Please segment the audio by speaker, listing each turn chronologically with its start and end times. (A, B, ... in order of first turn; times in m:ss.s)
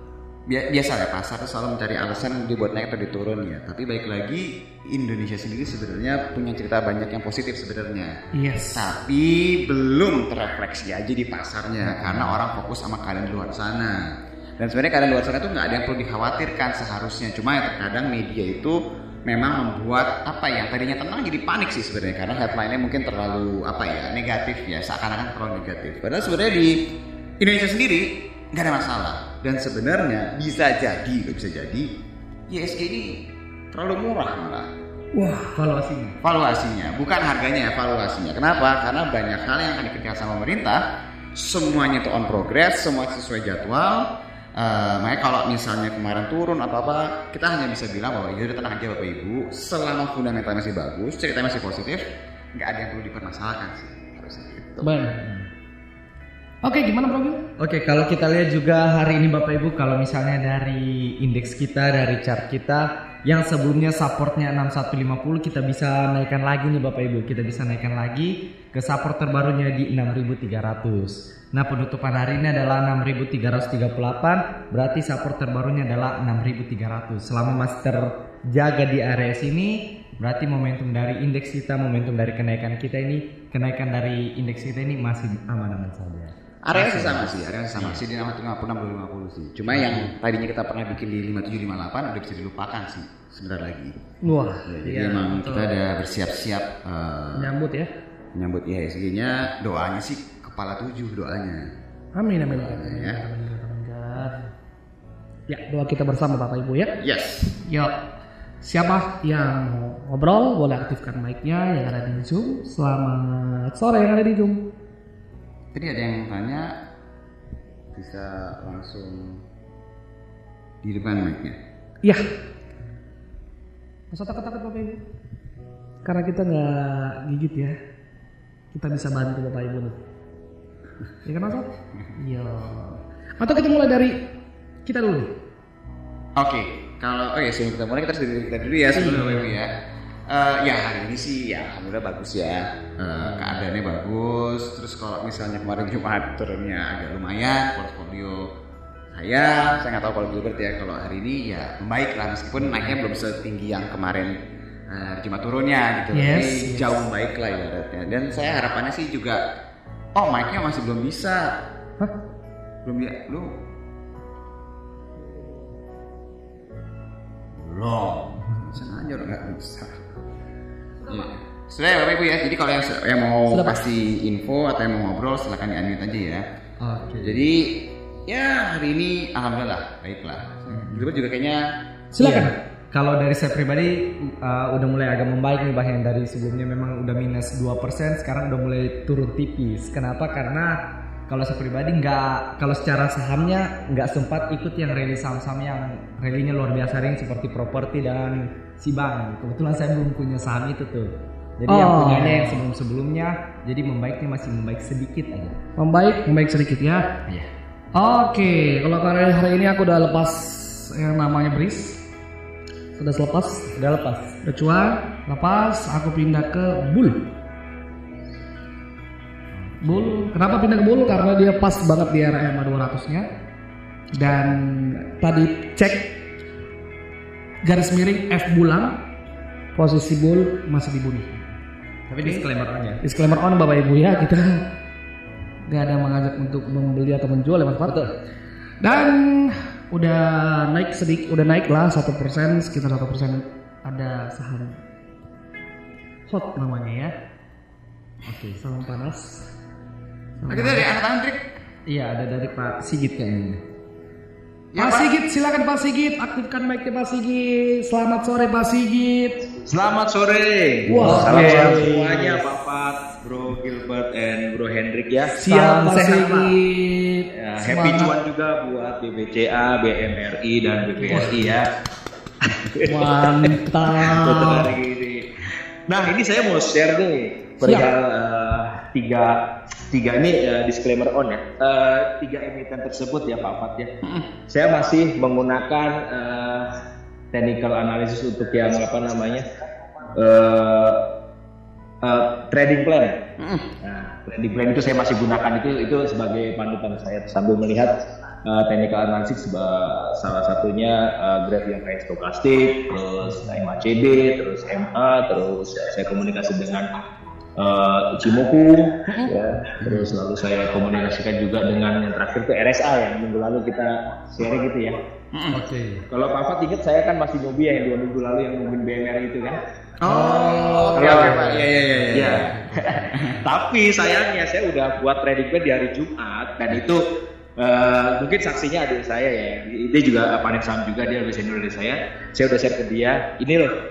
0:00.5-0:08.2 A
0:08.3-0:08.8 B
0:08.7-0:26.8 A
0:27.4-0:31.9 A
0:32.5-0:34.7 A
0:35.1-0:35.5 B
0:35.4-0:36.2 C
0:36.2-0:40.8 A
0:41.3-0:55.1 A
0:54.8-0:55.2 B
0:55.2-0:55.4 C
0:56.6-0:57.4 B
0:57.6-1:28.0 C
1:26.6-1:34.0 A
1:29.7-1:30.1 C
1:34.2-1:35.7 B
1:34.6-1:37.6 A
1:37.3-1:37.9 B
1:38.3-1:41.7 A
1:42.2-1:44.5 B
1:42.5-1:43.2 A
1:45.5-1:46.9 B
1:47.0-1:47.5 A
1:47.6-1:47.9 B
1:48.6-1:54.6 B
1:55.7-1:56.7 A
1:57.9-1:59.4 A
2:00.8-2:01.6 A
2:04.1-2:05.0 B
2:06.0-2:07.8 B
2:08.7-2:10.0 B
2:11.2-2:14.2 B
2:14.8-2:15.3 B
2:16.4-2:19.7 A
2:19.0-2:19.4 B
2:20.3-2:28.5 A
2:29.1-2:39.4 A
2:36.1-2:37.0 B
2:40.1-2:41.5 A
2:42.8-2:43.5 A
2:47.6-2:50.0 A
2:51.0-2:56.4 A
2:53.5-2:53.8 B
2:56.8-2:57.4 C
2:57.2-3:01.6 A
3:00.7-3:01.0 C
3:02.1-3:02.5 B
3:02.2-3:10.8 C
3:11.3-3:25.6 C
3:21.7-3:22.6 B
3:25.8-3:27.0 B
3:27.9-3:32.0 B
3:33.0-3:33.7 B
3:33.8-3:34.3 C
3:34.4-3:37.2 B
3:39.8-3:43.3 B
3:44.2-3:46.1 B
3:47.6-3:48.9 B
3:49.7-3:51.3 B
3:52.1-3:53.0 C
3:53.0-3:54.6 B
3:55.7-3:58.1 B
3:58.8-4:04.8 B
4:06.3-4:07.1 B
4:08.3-4:08.6 C
4:08.6-4:09.5 B
4:10.4-4:10.9 B
4:10.5-4:11.4 A
4:11.9-4:13.6 C
4:14.7-4:15.1 A
4:14.8-4:19.4 B
4:19.6-4:25.4 D
4:20.9-4:21.9 B
4:21.0-4:22.0 C
4:21.3-4:21.6 A
4:25.4-4:28.1 B
4:25.5-4:26.4 C
4:27.3-4:31.7 D
4:31.1-4:31.5 B
4:32.5-4:43.9 D
4:32.8-4:34.7 B
4:37.6-4:37.9 B
4:44.5-4:46.7 D
4:47.3-4:49.4 D
4:50.1-4:51.0 D
4:52.0-4:53.2 D
4:53.4-4:53.7 A
4:53.8-4:57.9 D
4:58.4-5:06.9 D
5:07.6-5:15.0 D
5:09.8-5:10.1 A
5:15.3-5:15.6 A
5:15.5-5:16.0 C
5:16.1-5:19.6 D
5:20.0-5:23.4 A
5:20.1-5:22.0 C
5:20.9-5:21.6 D
5:22.1-5:27.0 D
5:27.6-5:33.8 D